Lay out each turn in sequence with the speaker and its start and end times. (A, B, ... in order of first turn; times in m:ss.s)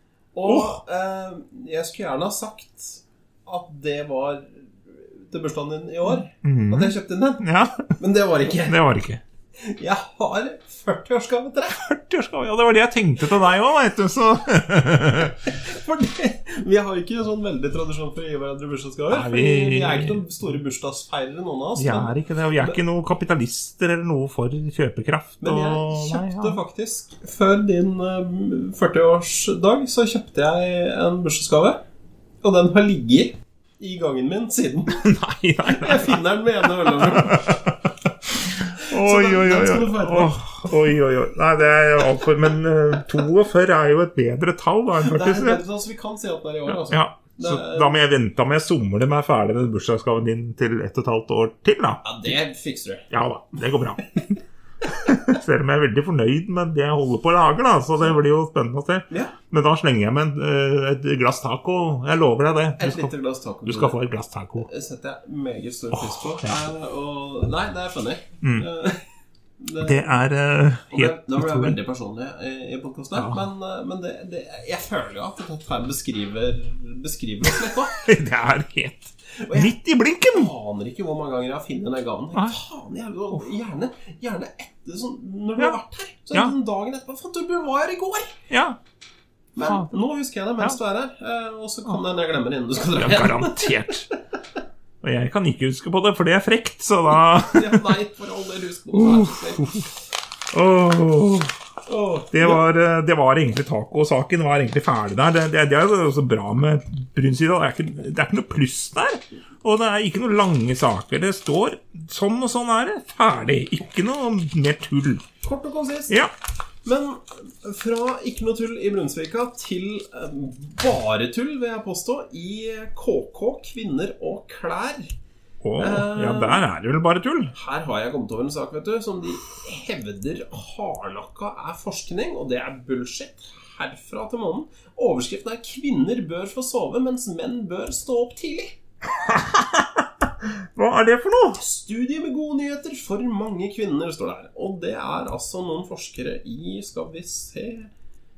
0:00.4-0:07.5 A
0:00.4-0:00.8 B
0:06.3-0:08.0 B
0:08.0-0:08.8 A
0:08.7-0:09.2 B
0:09.6-0:11.8 A
0:11.8-0:15.4 B
0:15.4-0:22.8 A
0:19.1-0:20.2 B
0:21.8-0:26.6 B
0:25.4-0:31.8 A
0:32.4-0:35.1 A
0:34.9-0:45.6 B
0:35.6-0:37.6 A
0:38.8-0:40.7 A
0:45.0-0:48.0 A
0:46.7-0:52.3 B
0:52.0-0:53.1 A
0:53.1-1:03.1 B
0:59.1-0:59.4 A
1:02.8-1:04.0 A
1:03.6-1:04.7 B
1:04.6-1:09.0 A
1:05.9-1:06.6 B
1:09.6-1:10.2 A
1:09.8-1:11.8 B
1:10.9-1:18.0 A
1:13.2-1:13.4 B
1:17.9-1:20.5 B
1:19.3-1:19.7 A
1:20.3-1:28.4 A
1:28.5-1:28.8 B
1:29.6-1:34.2 A
1:29.6-1:29.9 B
1:33.0-1:34.1 B
1:35.0-1:38.0 B
1:37.1-1:39.9 A
1:38.9-1:39.9 B
1:40.5-1:41.5 B
1:41.9-1:42.6 A
1:42.3-1:55.3 B
1:55.4-1:56.2 A
1:56.8-2:05.1 A
2:05.6-2:07.5 B
2:05.8-2:06.6 A
2:07.5-2:18.8 A
2:19.2-2:21.6 B
2:21.6-2:27.9 A